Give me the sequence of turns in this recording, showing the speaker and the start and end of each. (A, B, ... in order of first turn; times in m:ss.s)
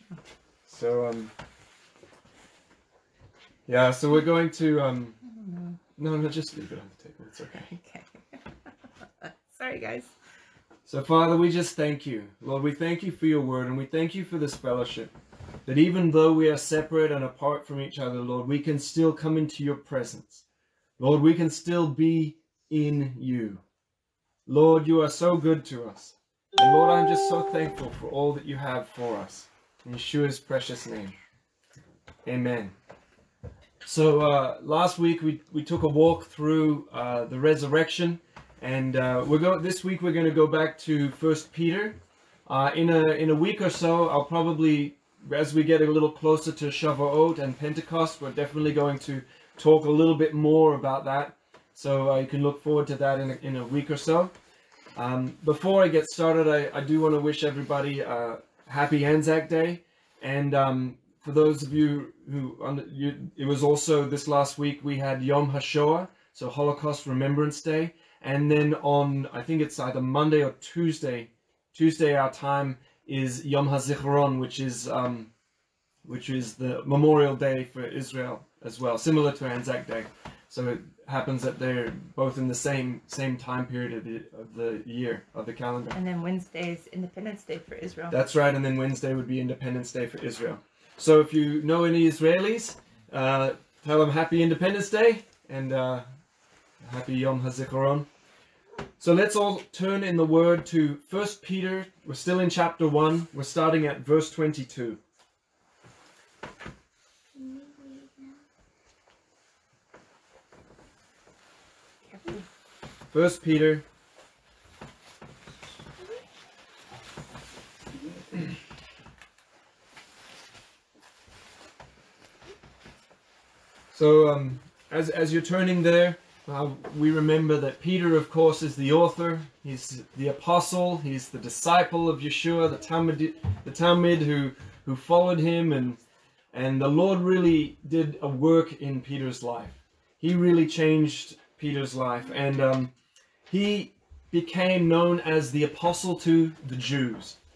0:00.6-0:01.3 A
0:03.7-0:05.2 A
0:05.3-0:05.8 B
0:06.0-0:07.7 A
0:07.5-0:10.1 B
0:10.8-0:15.1 A
0:15.6-0:20.4 A
0:21.0-0:23.6 A
0:24.4-0:31.2 A
0:32.2-0:32.7 A
0:33.8-0:54.3 A
0:55.0-1:15.3 A
1:16.0-1:26.0 A
1:25.9-1:28.2 B
1:28.1-1:36.0 A
1:36.8-1:38.1 A
1:39.0-1:45.0 A
1:47.4-1:48.3 B
1:52.1-1:52.4 B
1:53.1-1:53.8 A
2:03.9-2:16.0 A
2:16.5-2:22.9 A
2:23.5-2:27.4 A